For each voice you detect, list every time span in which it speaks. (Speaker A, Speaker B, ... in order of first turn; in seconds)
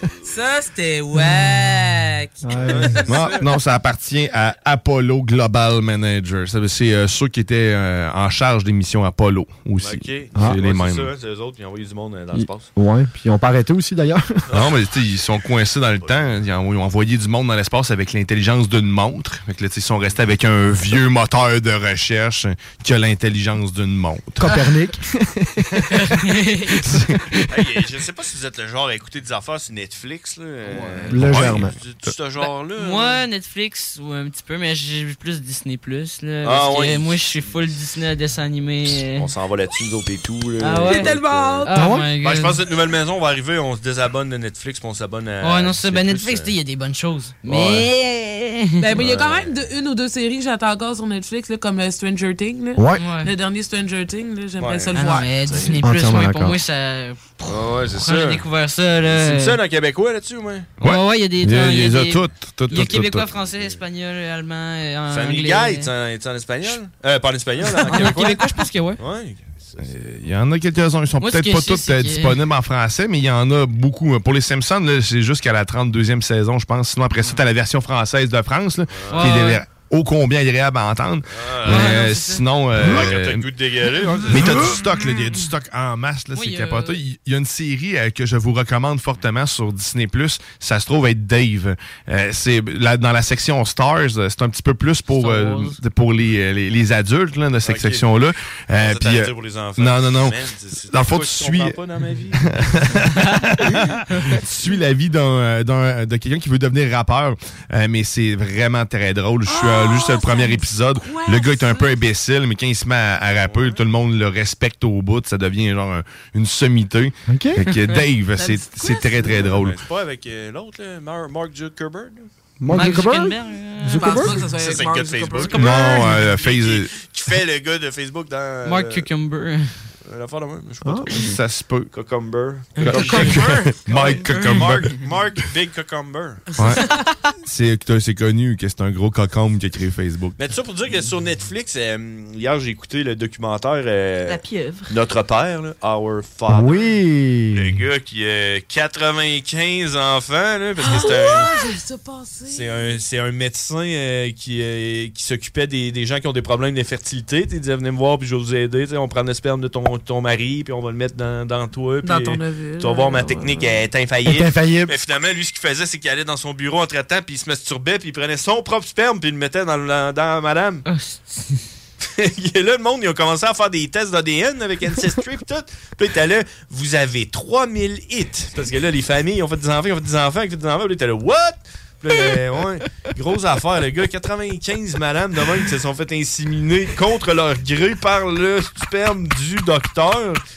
Speaker A: 0.2-3.0, 40.8-41.9, 48.8-55.7, 109.5-111.9, 118.4-119.3, 123.9-125.7, 150.8-152.8, 162.0-163.8
Speaker B: 2.4-3.1, 12.3-14.3, 24.4-25.9, 31.1-31.7, 41.7-42.1, 52.8-53.0, 55.8-56.6, 117.3-117.6, 122.6-124.4, 130.8-131.3, 146.5-147.8, 164.2-164.9
Speaker C: 2.5-3.5, 9.8-12.7, 14.5-14.9, 16.0-16.5, 27.5-33.2, 36.4-37.7, 38.9-46.5, 47.4-47.9, 49.0-49.6, 54.6-55.0, 57.4-58.5, 59.0-60.7, 62.7-63.8, 65.1-69.9, 79.0-79.3, 81.3-82.1, 82.7-84.8, 97.6-102.6, 113.5-113.8, 119.2-122.3, 124.5-129.1, 130.1-131.1, 131.9-136.5, 140.4-146.9, 147.5-151.6, 152.4-170.8, 172.1-190.4
Speaker D: 3.0-11.1, 14.5-24.5, 26.9-27.2, 60.8-63.3, 69.8-83.5, 84.2-100.4, 100.9-101.8, 102.3-119.8, 125.5-127.0, 131.1-131.9, 132.8-134.9, 136.6-136.8, 137.4-140.4
Speaker E: 25.9-26.9, 32.4-39.3, 40.6-42.6, 45.4-48.9, 53.0-53.3, 54.9-59.6, 60.8-65.9, 67.8-69.0, 71.2-72.4, 79.1-79.6, 81.7-82.5, 86.3-87.0, 95.1-95.8, 103.1-103.6, 122.7-124.5, 125.4-126.2, 128.7-129.7, 132.8-135.0, 144.3-144.9, 150.8-151.4, 170.9-171.6